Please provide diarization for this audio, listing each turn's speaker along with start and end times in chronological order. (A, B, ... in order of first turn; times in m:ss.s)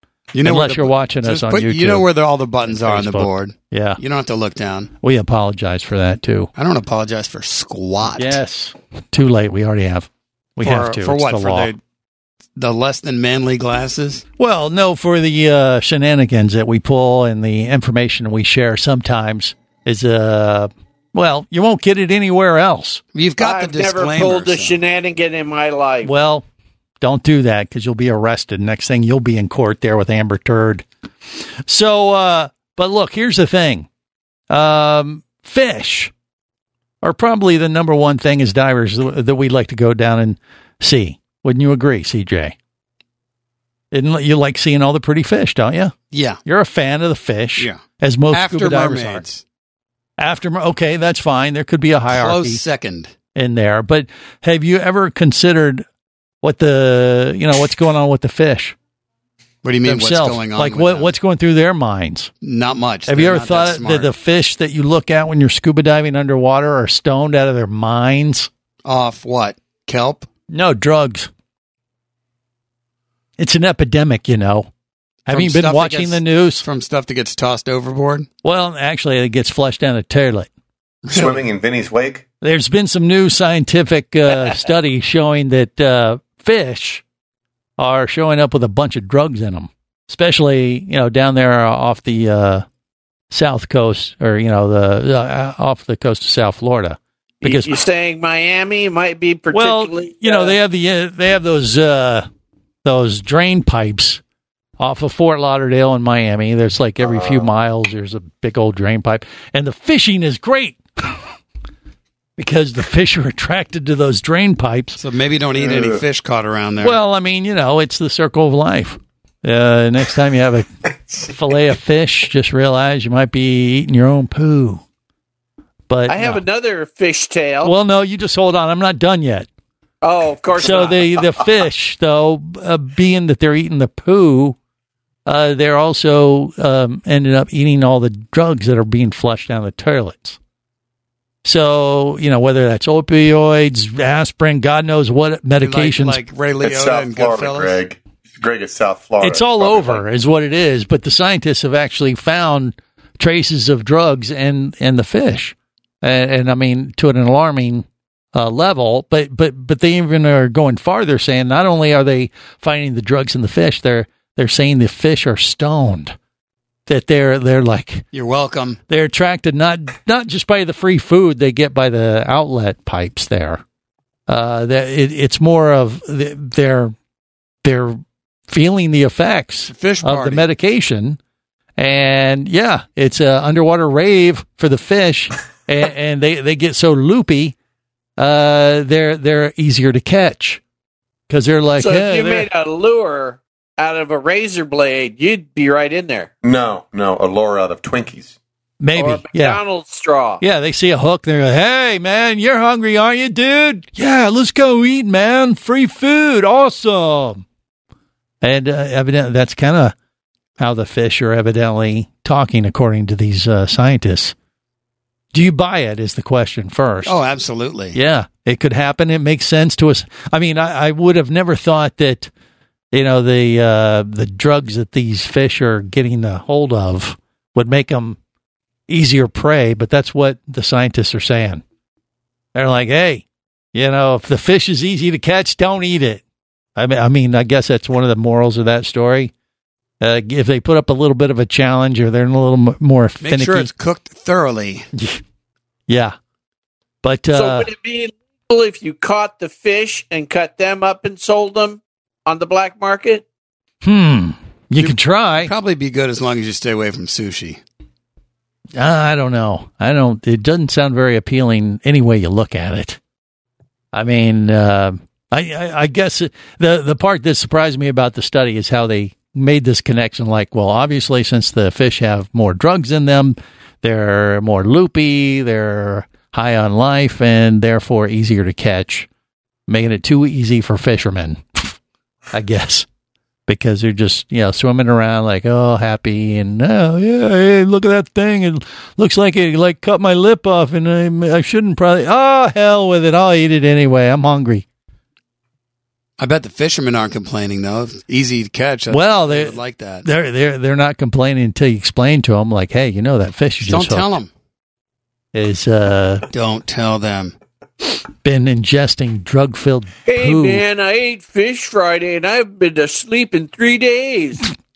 0:00.3-0:04.9 A
0:00.4-0:02.1 B
0:02.6-0:04.0 B
0:05.0-0:06.5 B
0:06.6-0:08.4 A
0:08.2-0:11.7 B
0:10.6-0:11.8 A
0:12.6-0:14.2 A
0:14.4-0:23.0 B
0:23.1-0:24.8 A
0:23.4-0:26.1 C
0:26.0-0:26.4 B
0:27.0-0:30.9 B
0:31.7-0:33.9 B
0:34.5-0:36.1 B
0:37.0-0:42.6 B
0:43.9-0:45.9 B
0:46.1-0:46.4 A
0:46.4-0:49.2 B
0:47.6-0:49.4 A
0:50.2-0:52.6 B
0:52.1-0:53.1 A
0:53.4-0:55.8 B
0:56.4-0:58.8 B
0:59.6-1:01.1 A
0:59.8-1:02.3 B
1:02.4-1:04.1 A
1:03.1-1:08.5 B
1:08.8-1:10.3 A
1:10.5-1:11.3 B
1:13.4-1:14.7 B
1:15.3-1:16.6 B
1:15.3-1:18.3 A
1:18.4-1:20.5 B
1:21.1-1:21.5 A
1:21.1-1:22.3 D
1:22.4-1:27.0 B
1:27.8-1:32.7 B
1:33.3-1:37.8 B
1:37.4-1:40.6 C
1:39.5-1:42.3 B
1:42.8-1:44.2 B
1:44.8-1:51.2 B
1:47.0-1:47.5 D
1:52.4-1:55.0 B
1:55.0-1:57.0 A
1:55.6-1:56.0 D
1:56.8-2:00.7 B
2:01.2-2:04.8 B
2:05.9-2:06.4 B
2:06.1-2:07.7 C
2:07.6-2:09.5 B
2:10.0-2:11.1 C
2:10.6-2:14.6 B
2:15.3-2:20.4 B
2:21.4-2:26.2 B
2:25.6-2:27.8 A
2:26.6-2:30.0 D
2:29.2-2:46.2 B
2:46.9-2:48.1 B
2:48.1-2:48.8 A
2:48.9-2:53.6 B
2:54.3-2:57.0 B
2:57.6-3:01.2 B
2:59.7-3:00.5 A
3:01.8-3:07.6 B
3:08.2-3:10.6 B
3:11.3-3:12.5 B
3:11.8-3:16.3 C
3:16.4-3:18.4 D
3:18.8-3:19.6 B
3:19.0-3:20.4 C
3:20.4-3:27.4 B
3:28.4-3:30.0 B
3:30.6-3:34.4 B
3:35.3-3:37.2 B
3:37.0-3:38.0 A
3:37.9-3:42.3 B
3:42.9-3:48.2 B
3:48.9-3:51.6 B
3:52.6-3:56.2 B
3:56.8-3:59.3 B
4:00.0-4:03.7 B
4:03.2-4:04.9 A
4:05.0-4:05.2 B
4:05.9-4:06.2 B
4:07.0-4:07.7 B
4:07.3-4:13.2 C
4:13.8-4:15.5 B
4:14.8-4:17.6 A
4:18.7-4:23.0 B
4:23.9-4:39.1 B
4:39.7-4:41.7 B
4:42.3-4:42.9 B
4:43.5-4:54.7 B
4:56.2-5:00.1 A
4:58.9-5:04.1 B
5:03.6-5:04.3 A
5:05.3-5:06.2 B
5:06.3-5:07.4 A
5:08.2-5:10.6 B
5:10.1-5:14.5 C